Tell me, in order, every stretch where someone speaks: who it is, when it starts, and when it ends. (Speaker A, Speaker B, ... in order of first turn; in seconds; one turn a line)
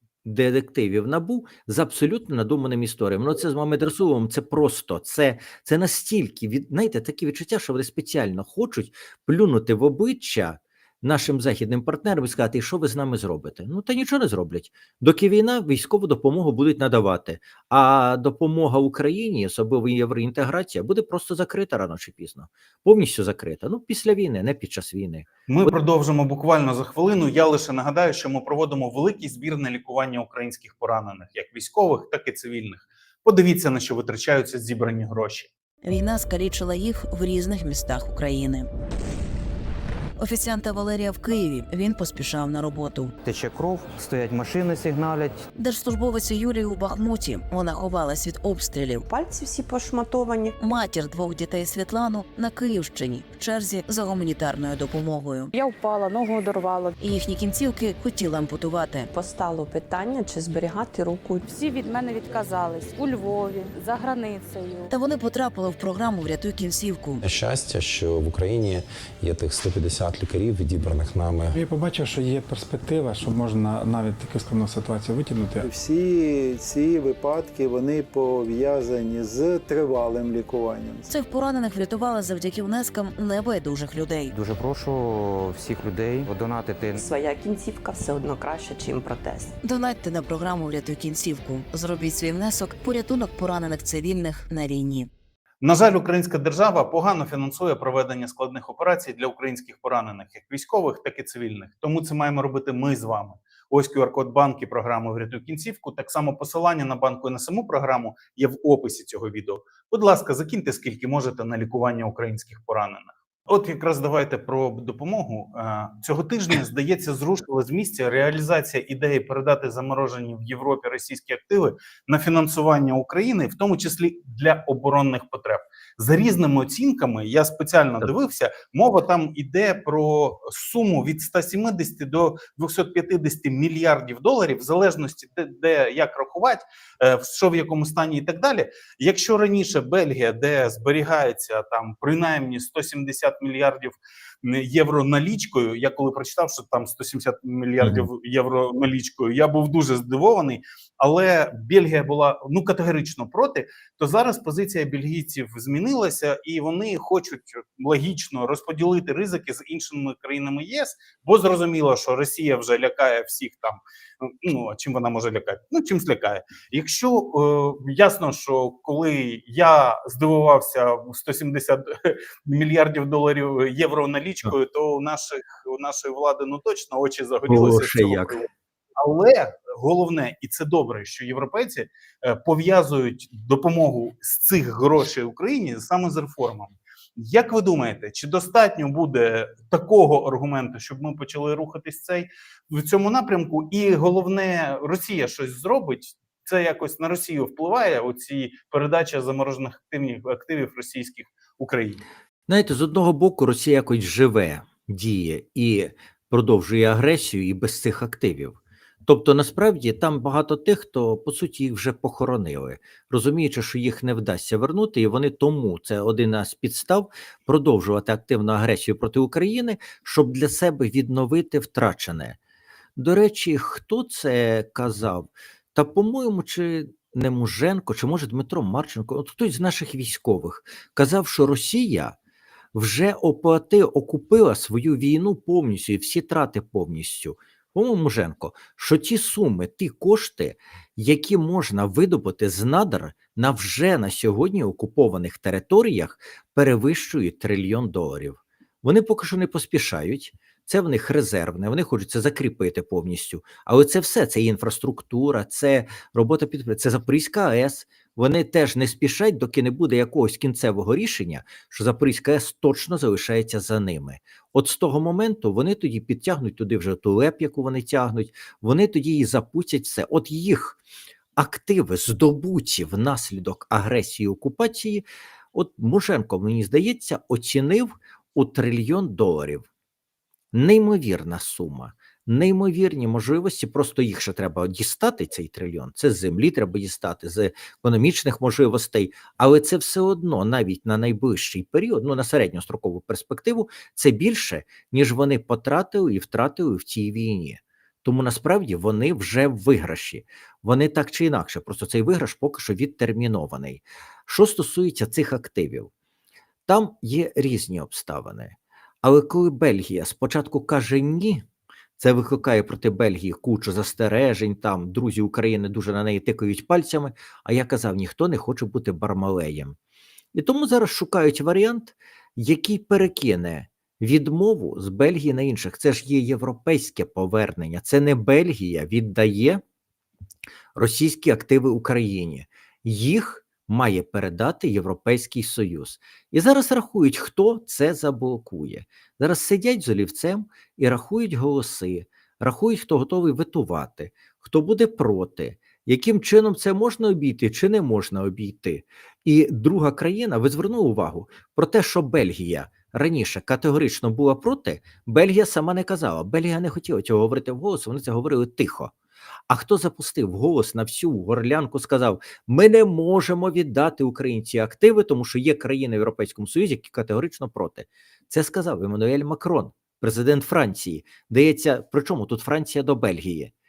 Speaker A: 0.2-25.8
Speaker B: 25.5-35.5
Speaker C: 35.8-38.7
Speaker C: 40.2-43.1
Speaker D: 43.2-45.5
Speaker C: 45.5-49.0
Speaker E: 49.0-50.5
Speaker C: 50.6-55.5
Speaker F: 55.5-56.9
Speaker C: 57.0-59.1
Speaker E: 59.1-61.4
Speaker F: 61.4-64.9
Speaker C: 64.9-67.2
Speaker G: 67.2-71.5
Speaker H: 71.5-75.7
Speaker I: 75.6-81.1
Speaker C: 81.1-84.3
Speaker D: 84.3-87.0
Speaker E: 87.0-89.5
Speaker C: 89.6-95.1
Speaker B: 95.6-202.0
Speaker A: 147.8-148.1
Speaker A: 177.5-178.4
Speaker A: 202.5-222.4
Speaker A: 222.9-232.2
Speaker A: 232.7-270.8
Speaker A: 271.4-279.6
Speaker A: 280.5-305.9
Speaker A: 306.7-311.4
Speaker A: 312.0-319.8
Speaker A: 320.3-329.6
Speaker A: 330.7-358.9
Speaker A: 359.5-373.5